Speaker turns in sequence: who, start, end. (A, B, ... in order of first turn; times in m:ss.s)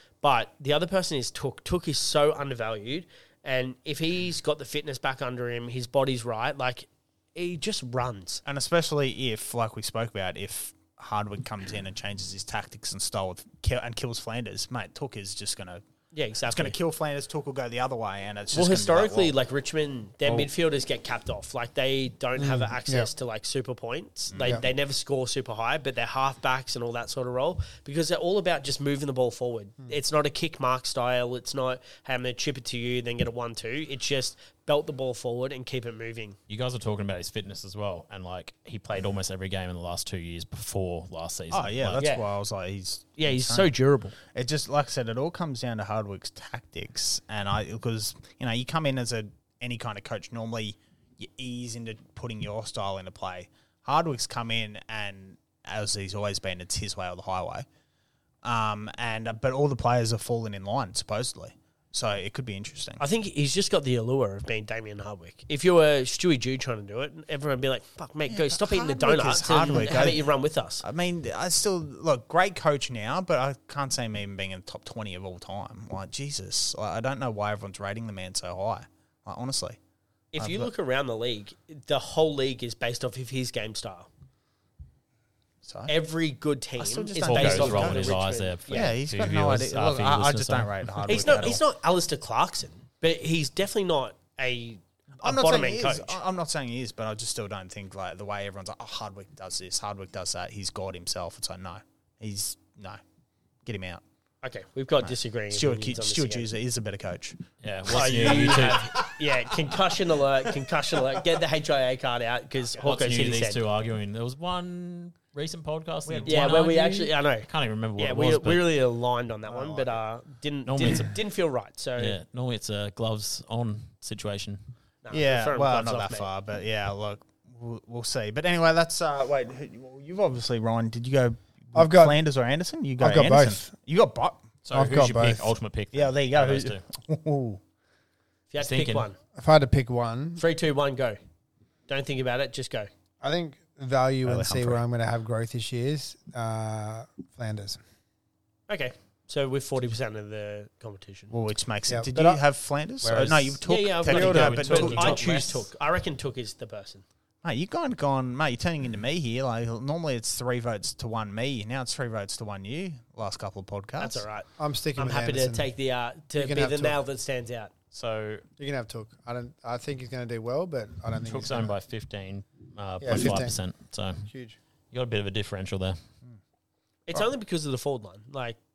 0:00.2-0:08.4 A
0:08.4-0:15.8 B
0:16.1-0:16.7 A
0:16.4-0:19.4 B
0:18.5-0:36.4 A
0:22.4-0:23.1 C
0:24.3-0:24.6 B
0:36.5-0:42.0 D
0:41.5-0:43.7 B
0:42.0-0:42.3 A
0:43.2-0:44.1 A
0:44.3-0:57.6 B
0:58.4-1:03.0 B
1:03.0-1:10.8 A
1:08.3-1:10.3 B
1:10.8-1:19.8 B
1:20.3-1:24.1 A
1:20.4-1:20.7 B
1:25.6-1:25.9 B
1:25.9-1:29.0 A
1:26.8-1:31.6 B
1:27.3-1:30.8 D
1:31.0-1:36.2 A
1:35.2-1:43.0 B
1:43.6-1:44.0 B
1:44.4-1:46.5 A
1:45.0-1:49.7 B
1:47.6-1:49.1 D
1:47.9-1:53.6 A
1:52.8-1:58.6 D
1:56.0-1:56.7 B
1:56.2-2:02.2 A
1:59.5-2:00.0 B
2:00.6-2:01.2 D
2:02.0-2:04.6 D
2:05.0-2:06.3 A
2:05.1-2:14.6 B
2:11.7-2:12.2 C
2:13.0-2:13.7 C
2:14.7-2:16.8 D
2:14.7-2:15.5 C
2:15.9-2:17.6 B
2:18.5-2:19.2 A
2:18.6-2:19.0 D
2:19.4-2:20.4 C
2:20.4-2:21.2 A
2:21.9-2:22.9 A
2:23.2-2:27.8 C
2:24.2-2:24.8 B
2:28.7-2:31.3 A
2:31.3-2:35.3 B
2:31.9-2:32.4 C
2:33.0-2:33.6 C
2:33.6-2:37.0 A
2:34.0-2:35.6 D
2:37.4-2:44.2 B
2:44.0-2:47.7 A
2:44.6-2:45.7 C
2:46.4-2:47.0 C
2:47.9-2:48.4 D
2:48.6-2:51.7 C
2:51.2-2:54.3 D
2:53.0-2:53.6 C
2:54.3-2:54.6 C
2:54.9-2:56.0 D
2:57.1-2:58.6 A